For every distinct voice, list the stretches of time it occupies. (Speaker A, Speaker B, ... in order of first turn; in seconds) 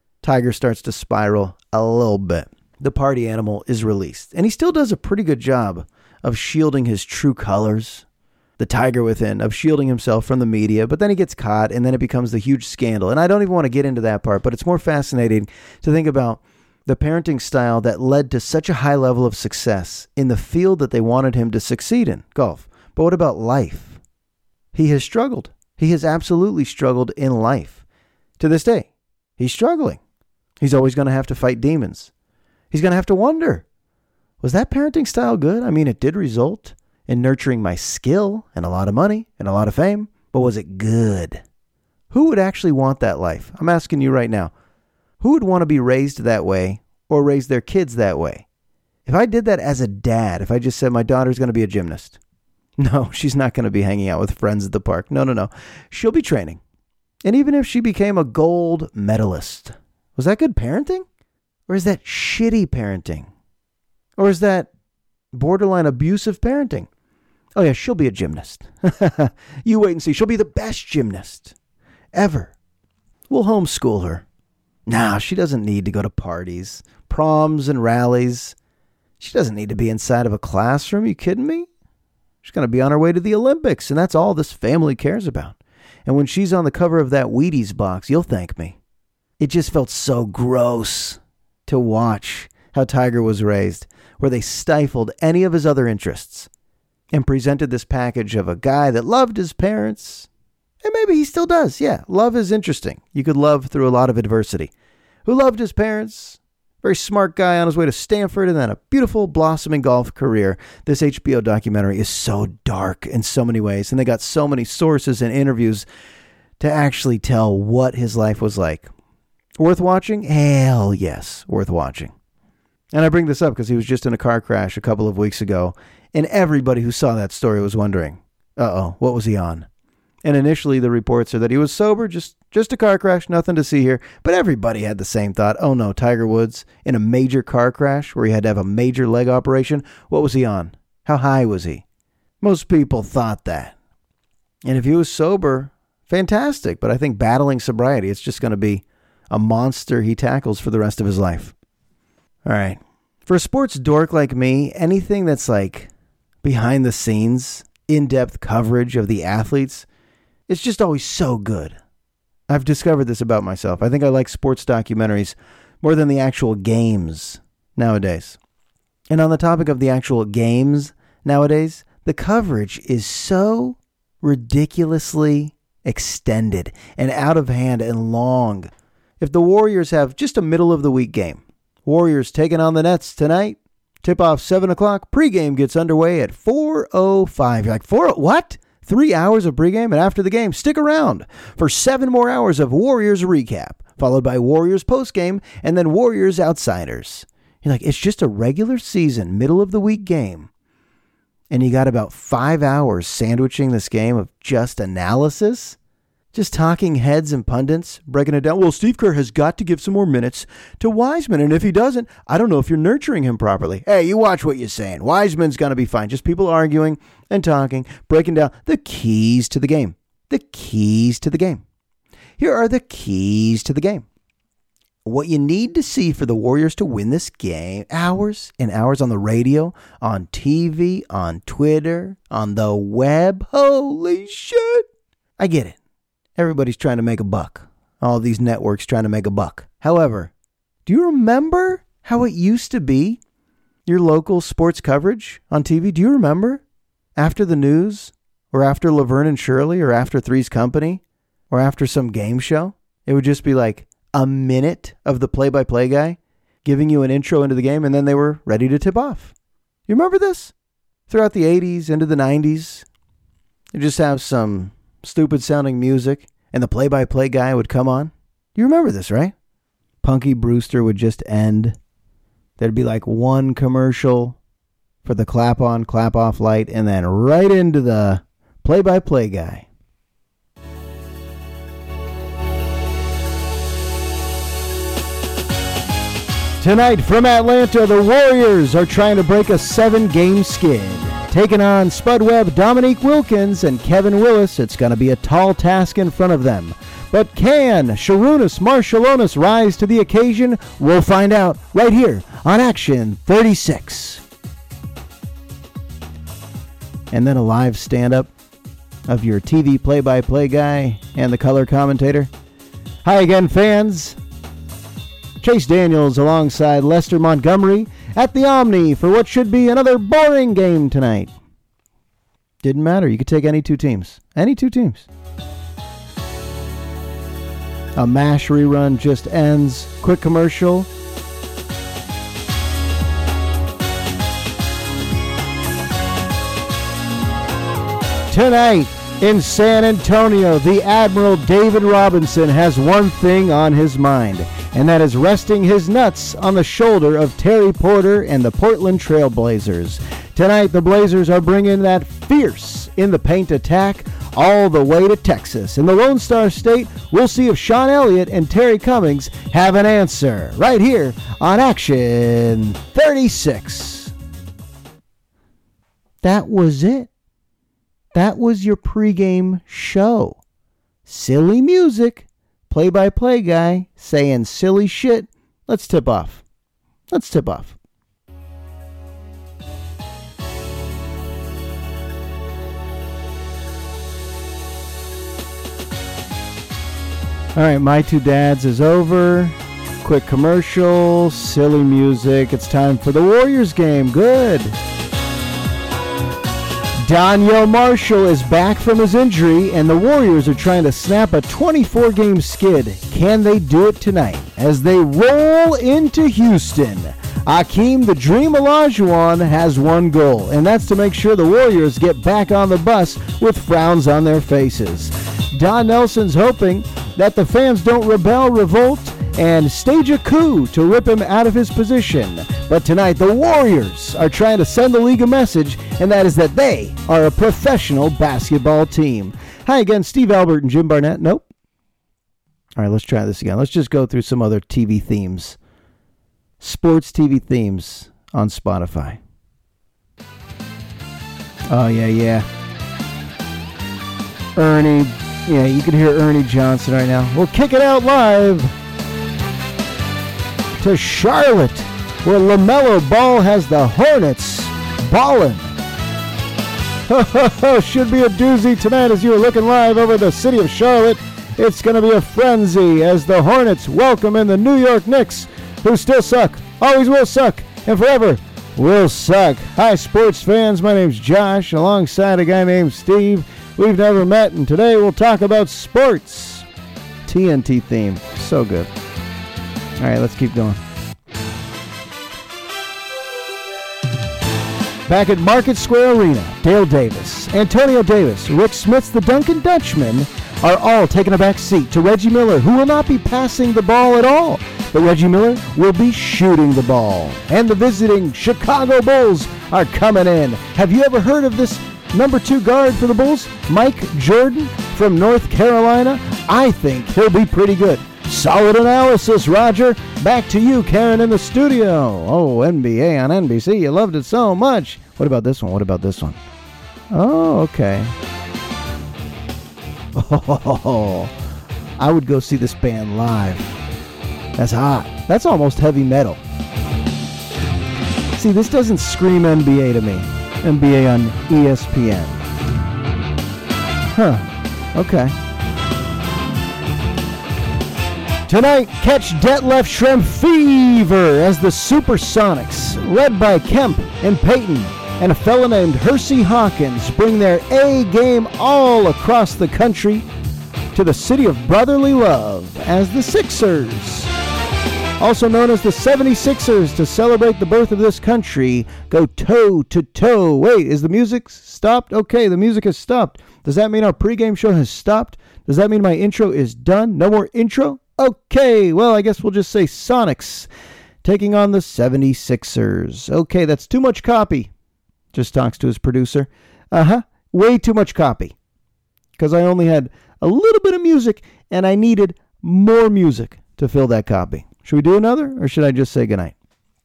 Speaker A: 0.2-8.0, 8.6-24.0, 24.7-27.8, 28.4-30.0, 30.6-32.1, 32.7-33.6, 34.4-41.4, 42.1-44.5, 45.2-48.4, 49.0-52.2, 52.8-56.6, 57.2-61.0, 61.7-63.3, 64.2-64.7, 65.3-66.9, 67.5-71.5, 72.1-72.5, 73.3-74.2, 74.9-78.5, 79.2-81.7, 82.4-88.8, 89.4-96.5, 97.1-100.3, 100.8-104.7, 105.2-115.8, 116.6-118.9, 119.6-122.1, 122.9-129.7, 130.2-141.8, 142.4-143.7, 144.6-151.5, 152.4-155.9, 156.4-159.8, 160.5-161.8, 162.5-168.4, 169.1-200.5, 201.5-205.8, 206.3-221.6, 222.4-224.0, 225.0-234.8, 235.4-235.8, 236.4-240.3, 240.8-243.2, 243.8-246.6, 247.2-259.3, 259.9-260.5, 261.1-262.9, 263.7-269.3, 270.0-271.8, 272.6-274.4, 275.0-279.7, 286.6-304.2, 307.1-308.3, 309.1-312.3, 313.0-314.2, 315.4-321.3, 322.6-325.1, 328.0-330.9, 338.3-364.1, 366.2-367.1, 368.1-370.4, 371.1-376.4, 377.1-377.8, 387.5-394.7, 397.1-431.4, 432.8-435.6, 436.6-439.2, 441.7-442.4, 444.6-448.7, 450.8-455.7, 457.1-476.6, 477.2-478.9, 480.0-480.8, 485.1-516.4, 517.1-518.1, 520.1-521.3, 522.0-523.8, 524.5-526.4, 528.3-532.4, 534.1-535.3, 538.5-550.2, 550.9-554.3, 555.2-570.7, 571.2-574.7, 575.3-578.5, 579.4-586.5